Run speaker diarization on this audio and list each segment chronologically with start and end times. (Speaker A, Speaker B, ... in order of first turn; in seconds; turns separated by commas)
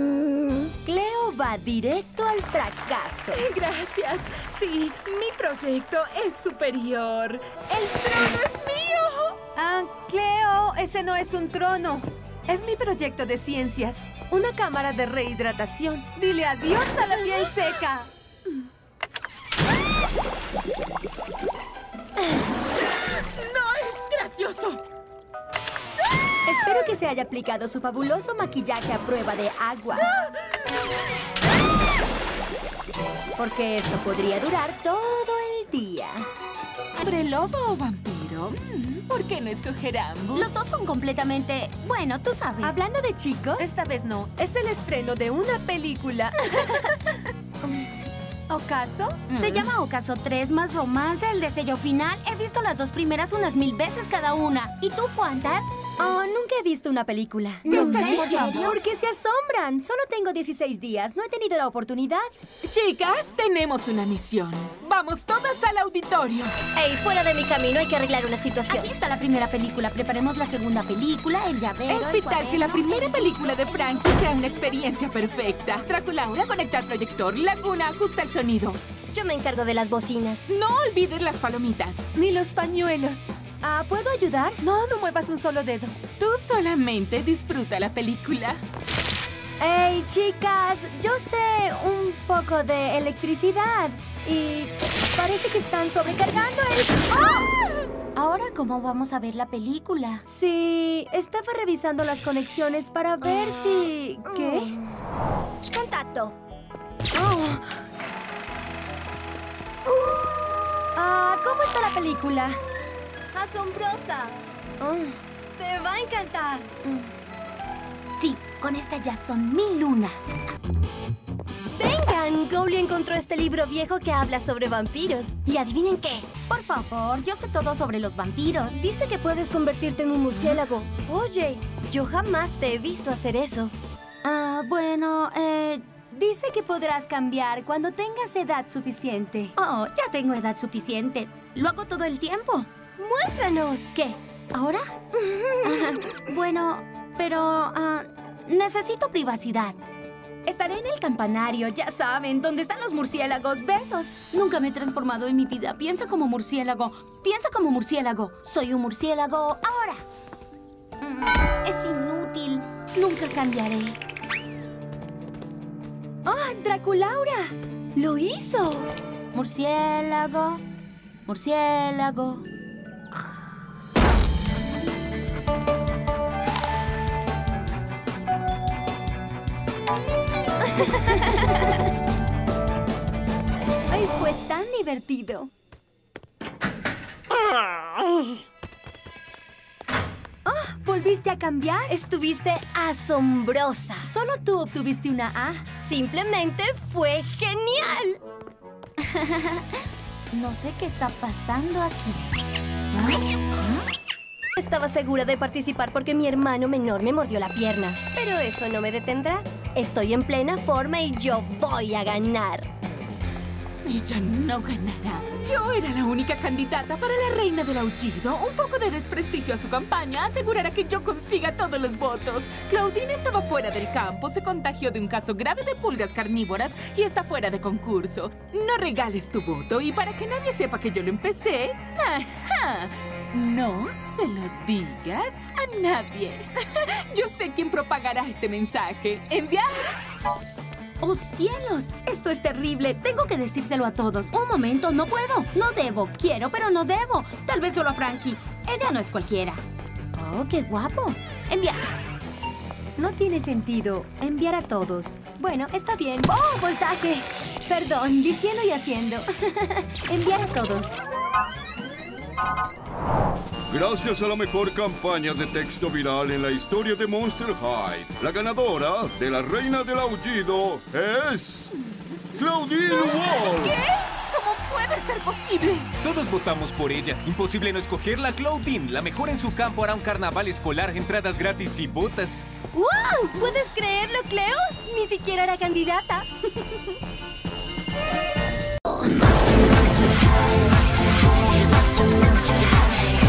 Speaker A: 0.8-3.5, Speaker B: 3.3-9.4, Speaker C: 9.5-18.1, Speaker B: 17.3-17.6, Speaker B: 23.4-24.8, Speaker A: 26.4-30.1, Speaker B: 30.0-30.3, Speaker A: 33.4-36.3, Speaker B: 37.0-40.5, Speaker D: 40.3-42.8, Speaker A: 42.6-43.7, Speaker C: 43.6-47.0, Speaker C: 48.5-49.3, Speaker D: 49.3-55.8, Speaker B: 49.4-49.7, Speaker A: 56.0-62.2, Speaker D: 57.6-58.8, Speaker C: 57.7-58.5, Speaker B: 57.7-58.1, Speaker B: 62.6-66.5, Speaker E: 66.7-68.9, Speaker D: 68.7-73.4, Speaker B: 71.9-78.8, Speaker E: 79.1-80.5, Speaker B: 80.5-82.1, Speaker C: 82.1-83.3, Speaker A: 83.6-84.6, Speaker C: 84.6-86.0, Speaker B: 86.2-88.6, Speaker A: 89.6-97.1, Speaker D: 98.1-100.2, Speaker A: 100.2-104.7, Speaker E: 104.2-104.9, Speaker E: 105.7-106.3, Speaker A: 107.1-107.8, Speaker A: 111.0-112.6, Speaker E: 113.3-114.4, Speaker A: 114.8-115.2, Speaker E: 115.5-116.7, Speaker A: 116.8-117.1, Speaker D: 118.2-120.2, Speaker E: 121.7-126.3, Speaker D: 126.5-128.8, Speaker E: 128.7-133.7, Speaker D: 134.2-135.8, Speaker A: 136.1-139.5, Speaker D: 139.6-142.7, Speaker E: 143.0-143.9, Speaker D: 143.9-144.8, Speaker E: 145.2-146.0, Speaker D: 145.6-149.8, Speaker D: 150.4-160.0, Speaker D: 161.0-164.0, Speaker A: 166.2-167.5, Speaker E: 168.1-168.9, Speaker D: 169.3-170.6, Speaker D: 171.3-172.4, Speaker A: 183.9-185.5, Speaker A: 190.4-191.9, Speaker E: 191.9-194.1, Speaker A: 194.0-195.7, Speaker E: 195.8-198.2, Speaker D: 199.1-199.7, Speaker D: 200.3-202.3, Speaker E: 204.6-212.7, Speaker B: 213.8-239.9, Speaker D: 241.0-249.6, Speaker D: 250.2-251.9, Speaker A: 253.0-261.0, Speaker F: 263.7-271.7, Speaker F: 272.4-273.8, Speaker B: 272.7-275.9, Speaker G: 276.0-282.5, Speaker E: 282.7-286.8